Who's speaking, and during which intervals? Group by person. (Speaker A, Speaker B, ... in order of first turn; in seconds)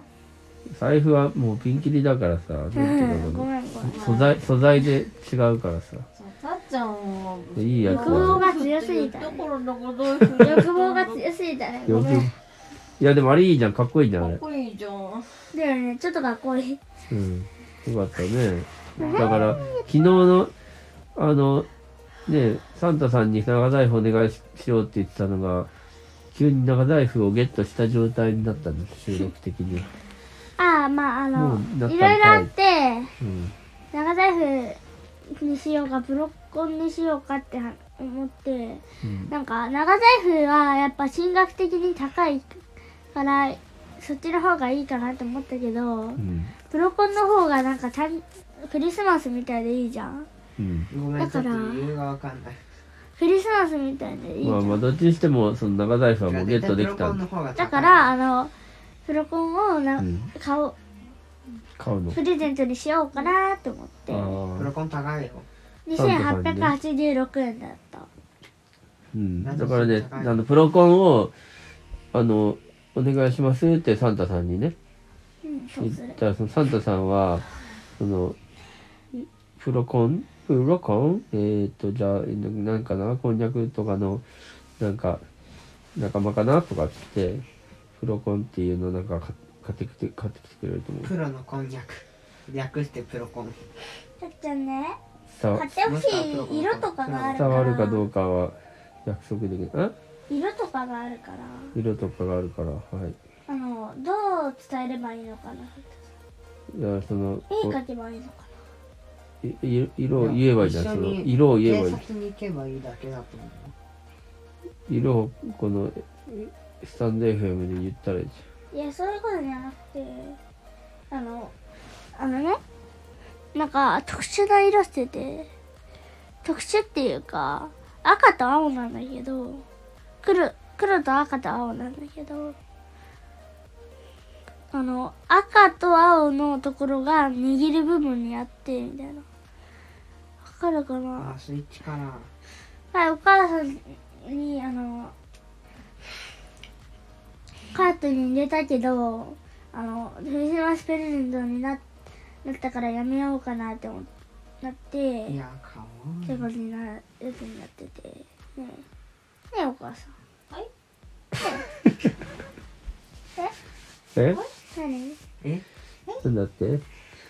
Speaker A: 0.7-6.0, 7.5-8.4, 11.9-12.3, 13.0-14.4, 17.1-20.5, 21.1-21.7, 22.2-25.7, 26.3-29.9, 31.3-32.5, 33.2-33.5, 39.0-39.3, 46.2-46.5, 50.6-50.9, 54.4-57.2, 60.0-60.3, 61.8-62.2, 64.1-64.7, 65.9-66.7, 69.1-71.3, 72.1-74.7, 75.8-77.4, 78.0-78.3, 79.1-84.2, 84.8-85.2, 85.9-87.4, 88.0-91.1, 95.4-95.7, 97.3-99.9, 101.7-103.2, 106.7-107.8, 109.4-112.0, 114.9-118.4, 164.1-164.4, 166.2-166.8
Speaker B: 2.7-4.1, 7.8-9.4, 10.4-12.3, 15.5-16.8, 19.0-19.8, 30.6-33.1, 33.9-42.6, 43.1-50.3, 51.2-51.9, 53.2-54.8, 57.6-58.5, 59.0-60.7, 62.1-64.4, 65.9-68.1, 75.4-76.2, 94.2-95.0, 95.5-98.1, 100.3-101.7, 103.5-106.0, 107.5-108.5, 118.7-120.4, 121.1-121.5, 122.1-122.6, 123.5-125.5, 126.4-129.6, 130.2-132.5, 134.7-139.2, 140.4-141.3, 142.9-145.1, 147.7-151.8, 152.4-154.1, 154.6-155.4, 156.2-158.8, 159.5-160.1, 161.4-161.6, 164.7-165.2
Speaker C: 3.9-4.4, 6.1-11.2, 14.2-15.5, 19.3-19.8, 164.3-164.5
Speaker D: 50.9-52.6, 56.3-58.1, 64.5-65.5, 69.4-70.4, 91.0-93.6, 95.8-97.7, 110.2-113.7, 141.2-142.3, 155.2-156.5